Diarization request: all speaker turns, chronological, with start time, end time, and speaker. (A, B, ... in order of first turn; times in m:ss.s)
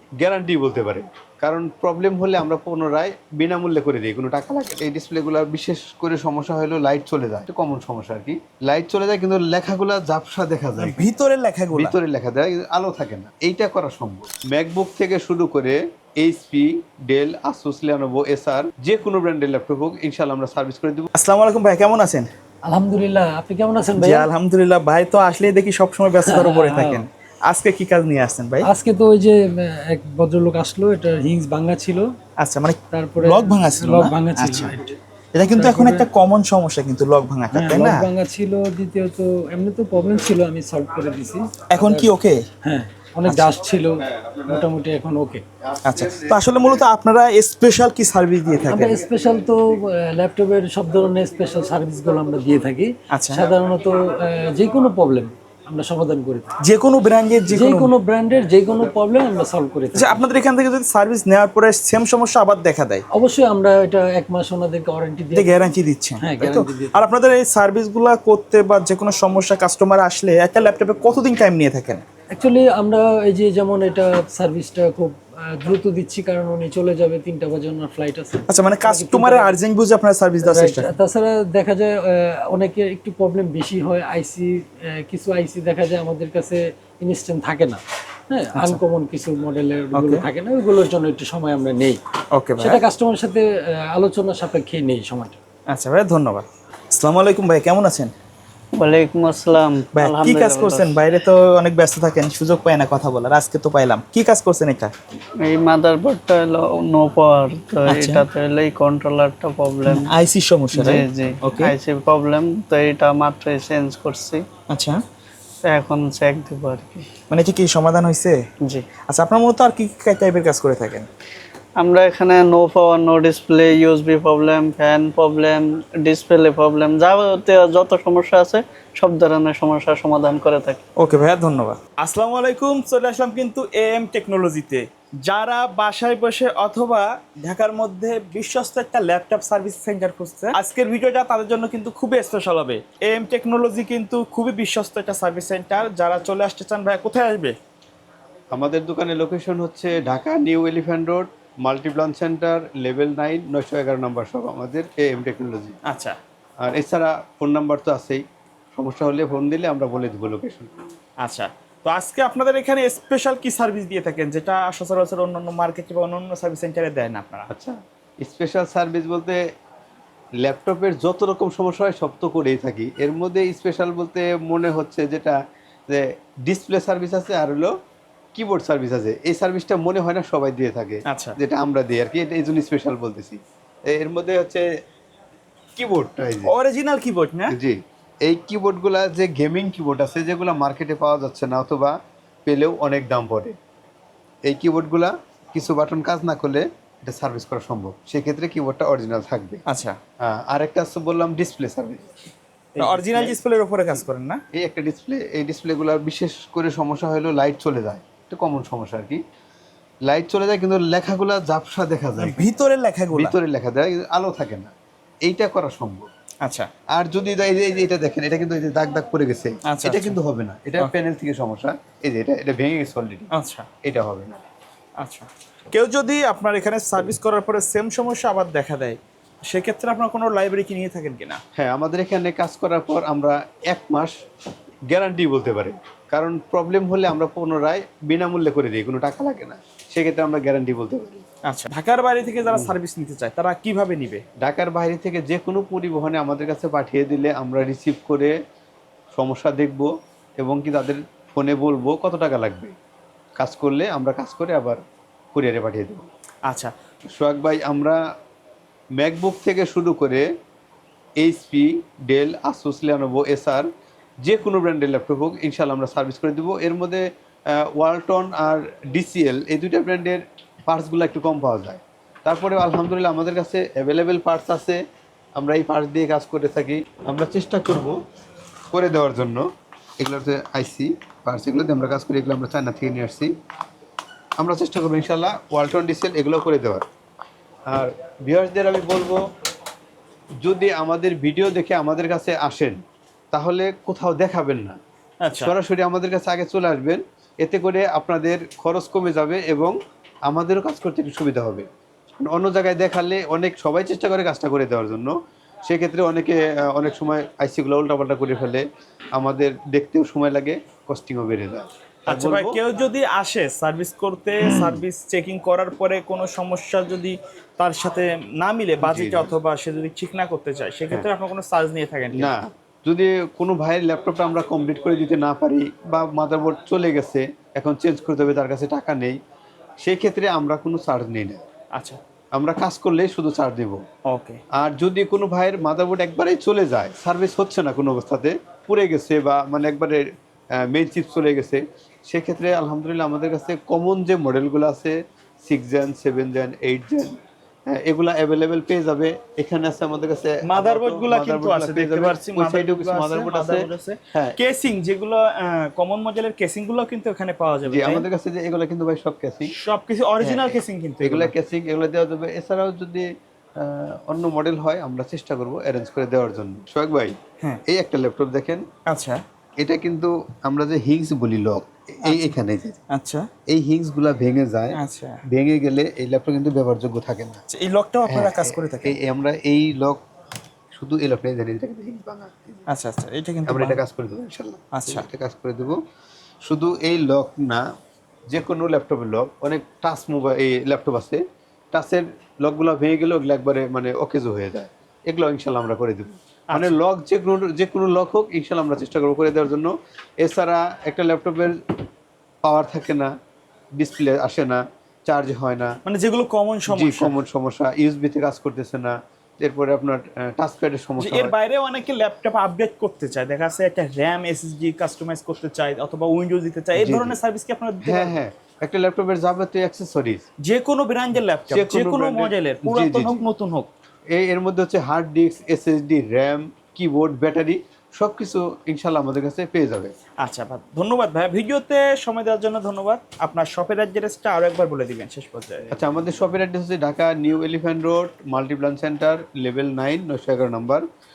0:00.2-0:11.0 A
0:10.8-0:12.0 B
0:11.7-0:21.1 A
0:21.1-0:22.3 B
0:22.6-0:24.3 C
0:24.0-0:28.7 B
0:26.2-0:27.0 C
0:28.6-0:32.1 C
0:32.4-0:34.8 B
0:32.9-0:34.9 C
0:35.3-0:38.0 B
0:35.5-0:36.1 C
0:37.5-0:42.1 C
0:41.7-0:42.5 B
0:42.6-0:45.4 C
0:43.3-0:43.5 B
0:45.7-0:46.5 A
0:45.8-0:49.0 B
0:48.7-0:56.6 C
0:53.1-0:53.5 B
0:56.6-0:57.9 B
0:57.5-1:00.2 C
0:59.9-1:03.0 B
1:03.1-1:07.0 C
1:05.3-1:12.0 B
1:12.3-1:19.6 C
1:18.5-1:20.9 B
1:20.4-1:32.0 C
1:29.9-1:30.2 B
1:32.3-1:32.8 B
1:32.6-1:35.4 C
1:35.7-1:38.1 B
1:38.8-1:41.0 D
1:39.9-1:44.9 B
1:45.4-1:50.1 D
1:47.9-1:48.2 B
1:49.9-1:51.8 B
1:50.7-1:54.4 D
1:54.7-1:55.0 B
1:55.6-1:57.1 D
1:57.3-1:58.4 B
1:59.0-2:01.1 B
2:01.8-2:10.8 D
2:11.0-2:27.6 B
2:28.5-2:35.8 A
2:35.8-2:36.2 B
2:36.6-2:38.2 A
2:38.8-2:40.8 A
2:41.2-2:47.5 B
2:47.5-2:49.4 A
2:50.4-2:55.4 A
2:55.9-2:57.7 A
2:58.3-3:04.7 A
3:01.1-3:01.4 B
3:05.8-3:06.5 A
3:06.4-3:07.5 B
3:07.5-3:13.6 A
3:14.4-3:19.6 A
3:19.7-3:20.0 B
3:20.2-3:22.2 A
3:22.8-3:23.4 A
3:22.8-3:24.4 B
3:24.5-3:29.2 A
3:30.0-3:32.4 A
3:32.2-3:33.4 B
3:33.1-3:34.7 A
3:35.2-3:36.1 A
3:36.4-3:36.7 B
3:36.9-3:43.3 A
3:39.7-3:40.2 B
3:43.3-3:43.7 B
3:43.8-3:44.4 A
3:45.0-3:51.4 B
3:51.6-3:54.2 A
3:54.9-4:01.2 A
4:01.5-4:04.2 B
4:04.4-4:08.4 A
4:09.1-4:12.8 A
4:13.4-4:14.8 A
4:15.3-4:16.1 A
4:16.4-4:16.7 B
4:17.1-4:18.0 A
4:19.0-4:20.3 A
4:21.2-4:23.7 A
4:24.2-4:34.8 A
4:35.4-4:38.0 A
4:38.7-4:39.5 A
4:40.0-4:43.3 A
4:44.4-4:46.9 A
4:47.7-4:49.2 A
4:50.4-4:52.8 A
4:53.3-4:54.8 A
4:55.2-4:55.5 B
4:55.4-5:01.7 A
5:02.2-5:08.6 A
5:09.2-5:12.6 A
5:12.1-5:22.4 B
5:14.5-5:14.8 A
5:18.8-5:19.3 A
5:22.1-5:29.2 A
5:29.8-5:31.4 A
5:31.7-5:32.0 B
5:32.4-5:33.8 A
5:34.1-5:34.4 B
5:34.5-5:40.0 A
5:40.6-5:47.2 A
5:47.7-5:54.4 A
5:50.4-5:58.1 B
5:57.6-5:59.5 A
5:59.5-6:01.3 B
6:00.2-6:03.1 A
6:03.6-6:08.6 A
6:08.9-6:09.2 B
6:09.6-6:12.8 A
6:12.0-6:12.3 B
6:12.9-6:13.3 B
6:13.5-6:17.4 A
6:14.8-6:15.2 B
6:17.5-6:19.0 B
6:18.1-6:20.0 A
6:20.7-6:22.6 A
6:22.7-6:23.8 B
6:23.5-6:25.8 A
6:24.7-6:25.1 B
6:26.4-6:27.6 A
6:28.3-6:31.2 A
6:31.7-6:41.6 A
6:36.5-6:36.8 B
6:42.4-6:43.1 A
6:43.8-6:45.8 A
6:45.8-6:47.1 B
6:46.7-6:51.3 A
6:51.0-6:58.2 B
6:56.8-6:57.1 A
6:57.8-7:00.2 A
7:00.4-7:03.7 B
7:01.5-7:03.2 A
7:04.1-7:09.9 A
7:10.2-7:15.7 B
7:15.7-7:20.8 A